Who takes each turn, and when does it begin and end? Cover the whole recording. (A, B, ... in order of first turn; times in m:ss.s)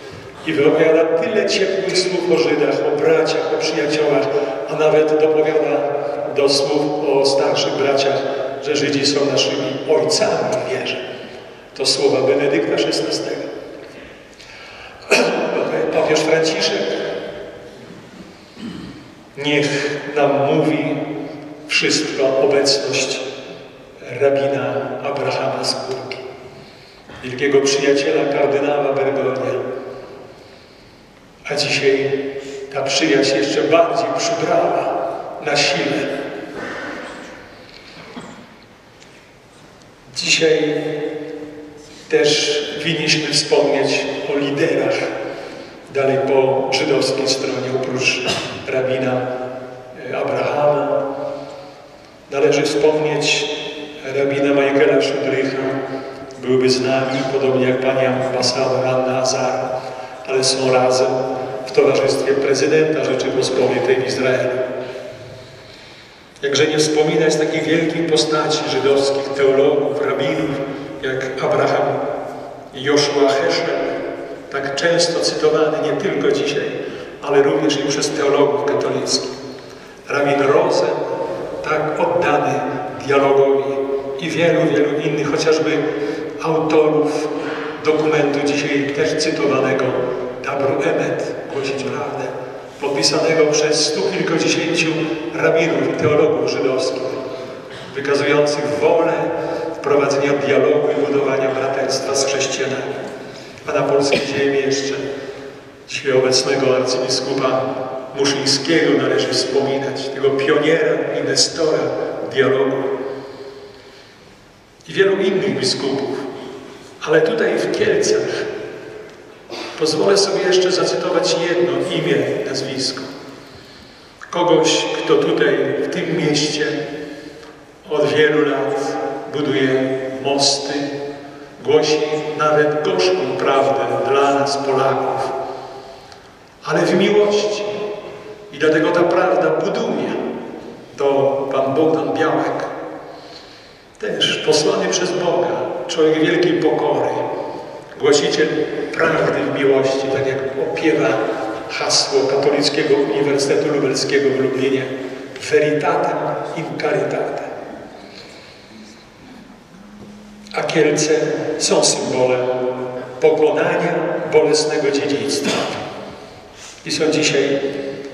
0:00.4-0:11.0 A
0:11.7-0:13.5 A
0:15.1-0:17.0 A
0:19.4-0:21.1 A
0:21.7-0:23.3 A
0:24.0-0:26.2 A
0:27.2-0:29.6 A
0:31.4-0:36.1 A
0:40.1-0:41.0 A
0:42.1-0:45.1 A
0:45.9-0:49.3 A
0:49.9-0:51.0 A
0:52.3-0:55.8 A
0:56.4-0:59.7 A
1:00.2-1:04.6 A
1:06.4-1:12.0 A
1:12.7-1:14.0 A
1:14.5-1:19.3 A
1:20.1-1:21.0 A
1:21.6-1:25.9 A
1:26.4-1:37.2 A
1:37.9-1:43.0 A
1:43.6-1:45.0 A
1:45.9-1:52.9 A
1:54.9-1:56.2 A
1:57.0-1:58.5 A
1:59.8-2:03.1 A
2:04.3-2:06.8 A
2:07.8-2:10.9 A
2:11.6-2:15.3 A
2:16.6-2:17.8 A
2:18.5-2:20.2 A
2:20.9-2:22.7 A
2:24.0-2:27.2 A
2:28.0-2:37.5 A
2:40.5-2:42.7 A
2:43.2-2:45.8 A
2:46.8-2:47.6 A